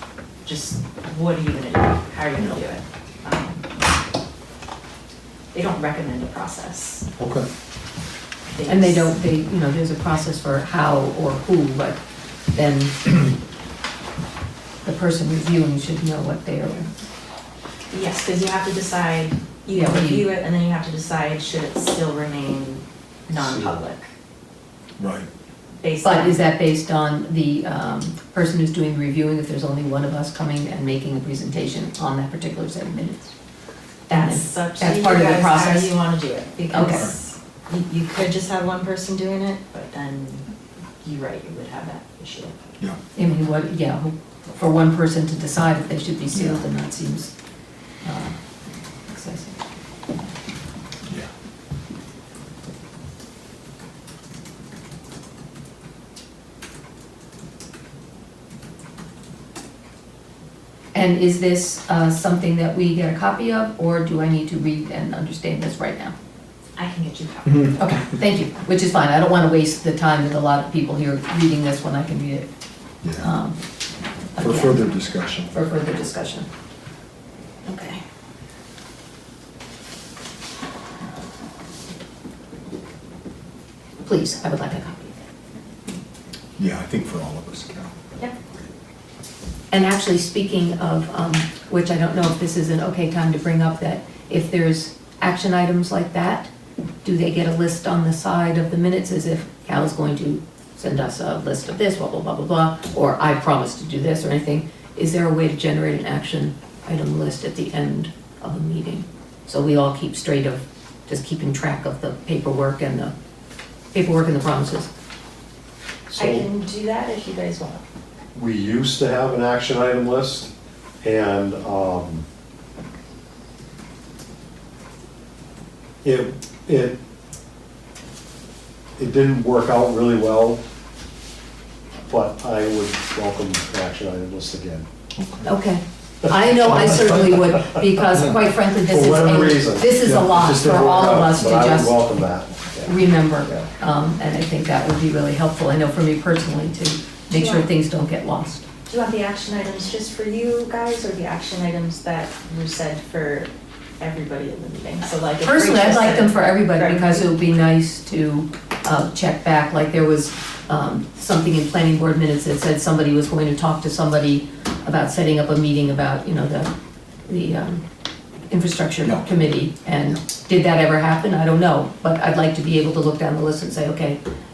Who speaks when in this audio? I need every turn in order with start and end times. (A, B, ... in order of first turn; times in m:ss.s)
0:00.4-0:03.6 A
0:05.5-0:07.0 A
0:07.2-0:07.5 B
0:08.5-0:09.2 A
0:08.6-0:12.0 C
0:12.5-0:13.4 C
0:14.8-0:16.9 C
0:17.9-0:24.1 A
0:19.7-0:20.3 C
0:23.4-0:23.8 D
0:25.0-0:25.3 B
0:25.8-0:26.5 A
0:26.0-0:33.3 C
0:34.1-0:35.9 C
0:34.1-0:40.4 A
0:36.7-0:37.1 C
0:41.0-0:42.6 A
0:43.2-0:47.3 C
0:46.3-0:46.7 B
0:48.0-0:48.4 C
0:49.1-0:49.6 C
1:00.9-1:06.1 C
1:06.8-1:07.8 A
1:07.4-1:07.8 B
1:07.8-1:12.5 C
1:13.0-1:13.3 B
1:13.2-1:13.6 C
1:14.3-1:14.9 C
1:14.4-1:15.5 B
1:15.5-1:16.5 C
1:17.7-1:18.0 A
1:24.0-1:25.3 C
1:26.6-1:28.0 B
1:29.7-1:36.5 C
1:37.0-1:53.1 C
1:53.9-1:54.9 C
1:56.1-1:56.5 D
1:56.2-1:57.8 A
1:58.3-2:02.2 D
2:06.0-2:07.0 D
2:09.0-2:10.6 D
2:12.0-2:14.9 D
2:15.2-2:15.5 B
2:15.4-2:22.0 C
2:16.4-2:18.1 D
2:18.1-2:18.5 B
2:18.8-2:23.7 D
2:22.8-2:28.6 C
2:27.3-2:27.7 A
2:28.9-2:37.3 A
2:35.4-2:46.7 C
2:47.3-2:47.8 C
2:48.5-2:54.2 C
2:49.0-2:49.4 B